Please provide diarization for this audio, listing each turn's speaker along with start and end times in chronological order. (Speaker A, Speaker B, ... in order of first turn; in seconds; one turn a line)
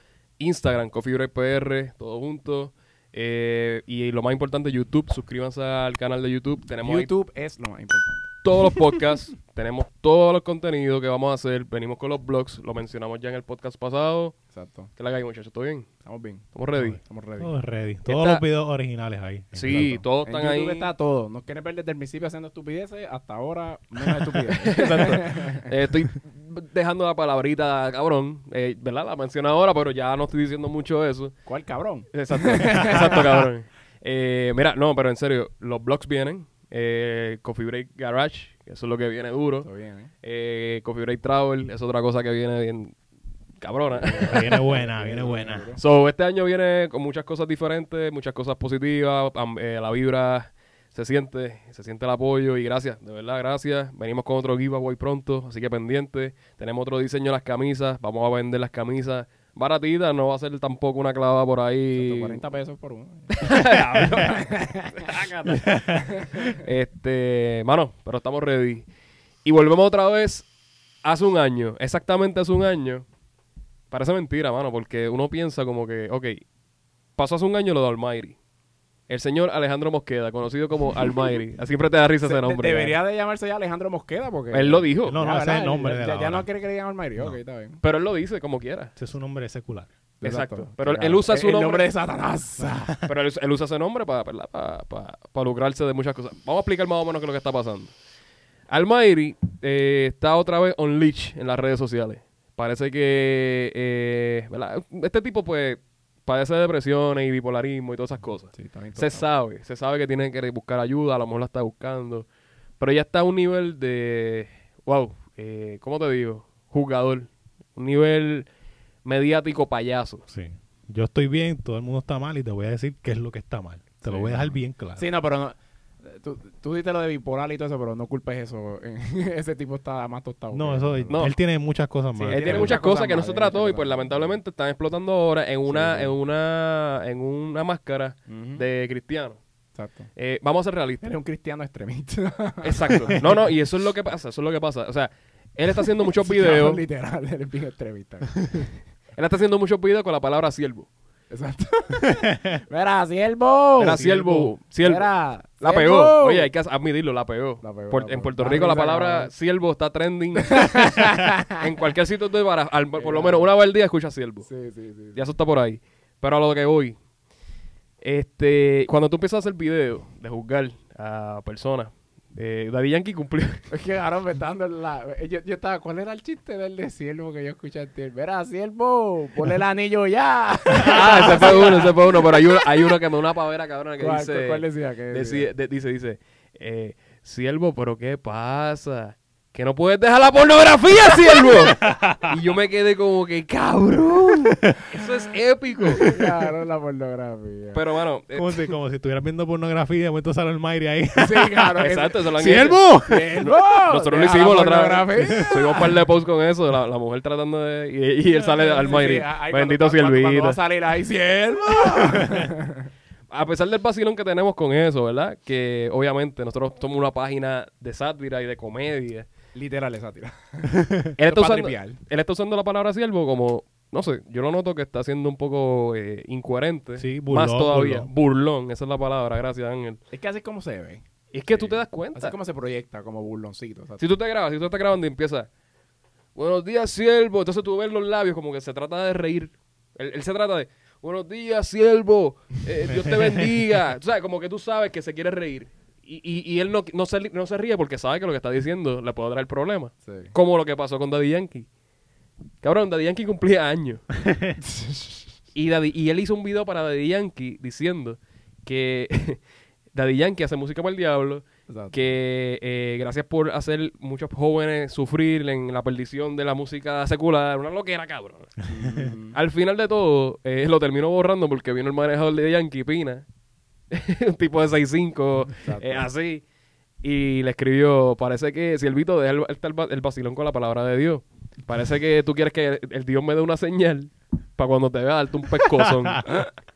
Speaker A: 0.4-7.1
Speaker B: 6.8-8.9
Speaker A: 8.4-14.3
Speaker B: 14.5-14.9
Speaker A: 15.0-15.9
Speaker B: 16.0-17.5
Speaker A: 16.5-17.0
Speaker C: 16.8-20.0
Speaker A: 18.1-18.4
Speaker A: 19.5-20.9
Speaker B: 19.7-25.7
Speaker A: 24.6-31.3
Speaker B: 31.5-33.5
Speaker A: 32.1-39.7
Speaker B: 39.6-40.1
Speaker A: 40.2-42.9
Speaker A: 43.6-44.7
Speaker B: 44.0-45.8
Speaker C: 44.2-45.7
Speaker A: 45.8-62.4
Speaker B: 61.9-65.1
Speaker A: 63.4-65.9
Speaker C: 65.7-66.0
Speaker B: 65.9-66.6
Speaker A: 66.4-68.8
Speaker A: 69.4-70.5
Speaker A: 71.0-73.0
Speaker A: 73.9-76.4
Speaker A: 77.2-78.4
Speaker A: 79.1-83.0
Speaker B: 82.2-87.8
Speaker A: 84.5-85.2
Speaker C: 85.0-86.5
Speaker A: 87.8-88.9
Speaker C: 89.0-89.9
Speaker B: 90.2-92.9
Speaker A: 90.2-91.9
Speaker C: 92.6-93.0
Speaker A: 93.0-97.9
Speaker A: 98.7-112.2
Speaker B: 108.5-109.2
Speaker A: 112.8-118.5
Speaker A: 119.0-120.2
Speaker C: 120.3-125.0
Speaker A: 124.1-124.4
Speaker B: 124.2-131.2
Speaker C: 130.5-132.8
Speaker A: 131.1-131.3
Speaker B: 132.2-134.4
Speaker A: 132.3-139.4
Speaker B: 135.7-136.1
Speaker B: 138.3-138.6
Speaker B: 139.8-140.1
Speaker A: 140.2-141.1
Speaker B: 141.0-143.3
Speaker A: 142.6-146.8
Speaker B: 146.1-148.7
Speaker A: 149.2-150.9
Speaker B: 151.3-154.1
Speaker A: 153.8-155.1
Speaker C: 153.9-154.5
Speaker B: 154.8-156.5
Speaker A: 155.6-164.5
Speaker B: 157.6-159.3
Speaker B: 160.4-161.6
Speaker B: 162.9-163.5
Speaker B: 164.4-165.2
Speaker A: 165.1-166.9
Speaker A: 168.0-173.7
Speaker B: 173.7-183.0
Speaker A: 180.8-196.2
Speaker B: 184.0-185.5
Speaker C: 191.5-192.4
Speaker C: 194.5-194.8
Speaker B: 196.0-197.8
Speaker A: 197.7-198.8
Speaker C: 198.3-203.4
Speaker B: 201.2-202.3
Speaker A: 201.8-202.8
Speaker B: 203.1-205.9
Speaker A: 203.4-210.6
Speaker C: 205.3-205.8
Speaker B: 208.3-212.9
Speaker A: 213.3-219.3
Speaker B: 219.5-222.0
Speaker A: 221.2-230.0
Speaker C: 227.0-228.1
Speaker B: 230.1-234.0
Speaker A: 231.3-232.3
Speaker A: 234.0-235.5
Speaker A: 236.3-251.7
Speaker B: 250.0-250.3
Speaker A: 252.6-254.1
Speaker B: 254.6-255.2
Speaker A: 255.5-259.4
Speaker A: 259.9-268.6
Speaker B: 261.7-262.1
Speaker B: 268.7-269.4
Speaker A: 269.3-273.2
Speaker A: 273.9-276.4
Speaker B: 275.6-276.1
Speaker A: 277.0-286.4